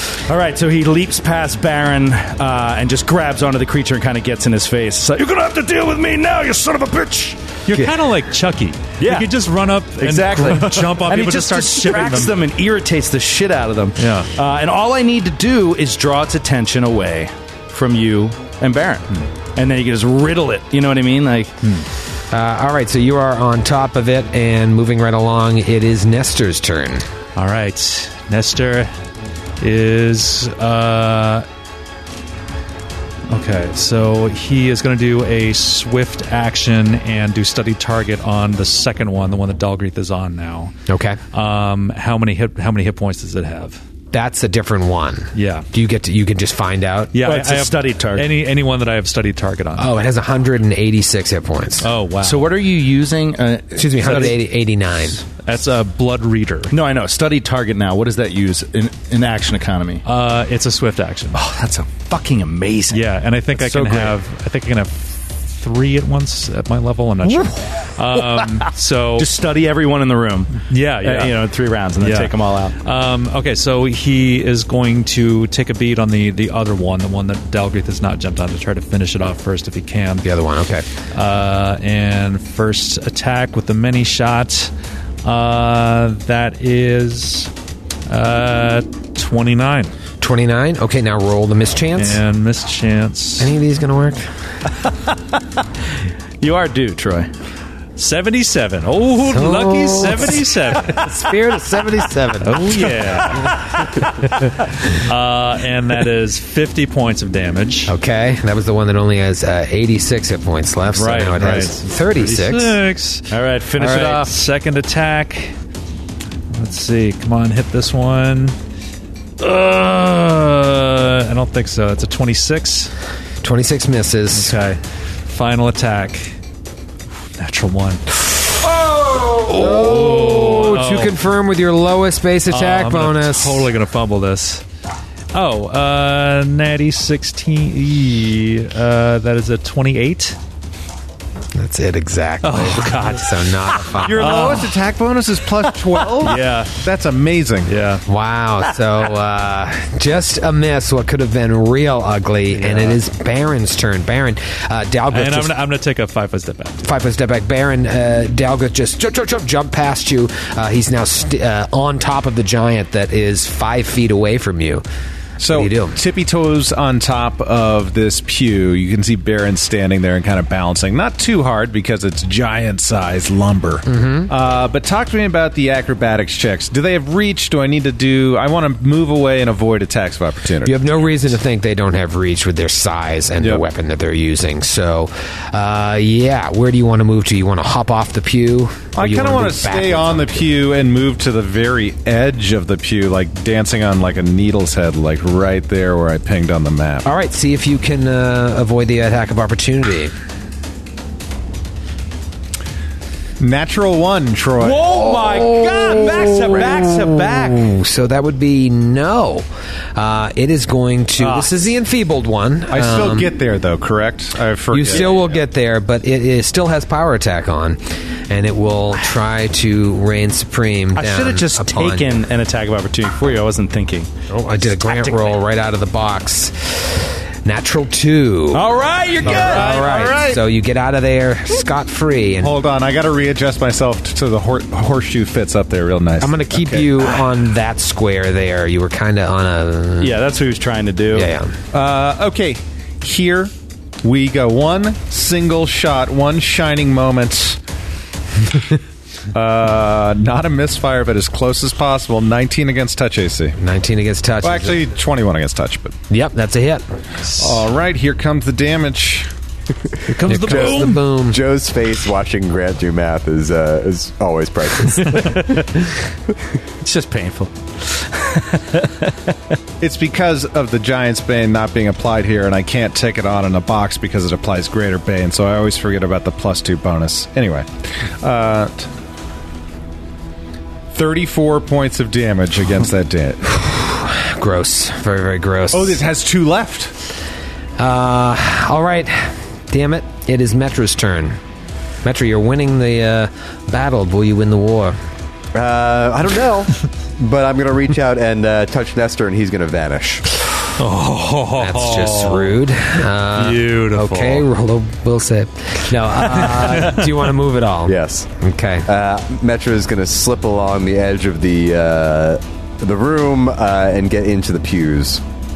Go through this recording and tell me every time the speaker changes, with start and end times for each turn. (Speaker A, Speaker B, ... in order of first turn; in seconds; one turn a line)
Speaker A: 0.1-7.4
Speaker B: 7.7-12.3
Speaker A: 9.0-9.3
Speaker A: 10.0-21.6
Speaker B: 14.0-14.3
Speaker B: 21.6-21.9
Speaker C: 22.3-27.1
Speaker B: 27.4-28.9
Speaker B: 29.6-31.5
Speaker B: 33.3-40.8
Speaker C: 40.9-41.2
Speaker B: 41.3-43.8
Speaker C: 44.1-47.1
Speaker B: 45.3-45.7
Speaker B: 47.1-49.9
Speaker A: 47.2-48.3
Speaker C: 49.8-51.9
Speaker B: 51.8-52.5
Speaker A: 52.2-54.4
Speaker C: 53.8-55.2
Speaker B: 54.0-54.4
Speaker B: 55.5-56.8
Speaker A: 56.7-60.0
Speaker B: 60.0-61.4
Speaker A: 61.3-64.2
Speaker B: 62.9-69.3
Speaker A: 69.2-72.8
Speaker B: 70.7-71.4
Speaker B: 72.0-80.3
Speaker C: 80.2-80.9
Speaker B: 81.1-84.7
Speaker B: 85.2-87.5
Speaker B: 88.1-89.9
Speaker C: 90.2-92.2
Speaker B: 92.0-93.5
Speaker C: 93.4-94.3
Speaker A: 96.4-97.3
Speaker B: 98.0-101.1
Speaker C: 99.2-103.0
Speaker B: 102.4-107.9
Speaker A: 103.1-103.6
Speaker C: 107.9-112.8
Speaker B: 111.0-115.5
Speaker A: 113.3-114.3
Speaker B: 116.5-118.6
Speaker B: 119.4-122.9
Speaker C: 123.4-124.5
Speaker B: 124.3-126.4
Speaker B: 127.4-128.2
Speaker C: 129.0-133.7
Speaker B: 129.5-131.2
Speaker B: 132.5-134.6
Speaker B: 135.3-140.4
Speaker C: 141.6-144.6
Speaker B: 142.4-144.8
Speaker D: 144.0-147.7
Speaker B: 146.2-146.7
Speaker B: 147.7-148.1
Speaker C: 148.1-155.6
Speaker B: 152.5-153.0
Speaker B: 155.1-156.8
Speaker C: 156.8-164.8
Speaker D: 165.4-181.0
Speaker C: 165.5-166.0
Speaker C: 173.9-174.3
Speaker C: 180.6-190.5
Speaker D: 188.9-197.1
Speaker C: 197.1-200.1
Speaker D: 203.4-204.9
Speaker A: 204.6-207.7
Speaker C: 204.9-213.3
Speaker A: 211.2-211.7
Speaker D: 212.7-215.3
Speaker C: 214.7-222.2
Speaker A: 214.8-215.2
Speaker A: 220.9-224.1
Speaker C: 224.3-228.7
Speaker A: 224.9-225.3
Speaker A: 228.5-229.7
Speaker C: 229.2-232.6
Speaker D: 229.2-230.4
Speaker D: 232.4-237.2
Speaker C: 236.2-240.2
Speaker A: 240.0-241.3
Speaker C: 241.1-241.6
Speaker D: 241.7-247.6
Speaker D: 249.3-253.6
Speaker C: 253.6-254.8
Speaker D: 254.4-256.0
Speaker C: 256.1-256.9
Speaker B: 257.2-257.6
Speaker D: 257.4-259.3
Speaker B: 260.1-261.0
Speaker C: 260.3-261.4
Speaker E: 260.5-265.5
Speaker B: 265.0-265.3
Speaker A: 265.1-265.9
Speaker A: 266.8-269.4
Speaker D: 269.8-278.9
Speaker D: 280.9-283.6
Speaker C: 283.5-286.0
Speaker D: 285.7-286.9
Speaker C: 287.8-291.4
Speaker C: 292.0-295.0
Speaker E: 295.5-300.2
Speaker B: 300.8-302.6
Speaker C: 301.6-308.9
Speaker B: 303.3-304.5
Speaker B: 306.5-306.9
Speaker E: 307.9-308.3
Speaker E: 308.9-315.2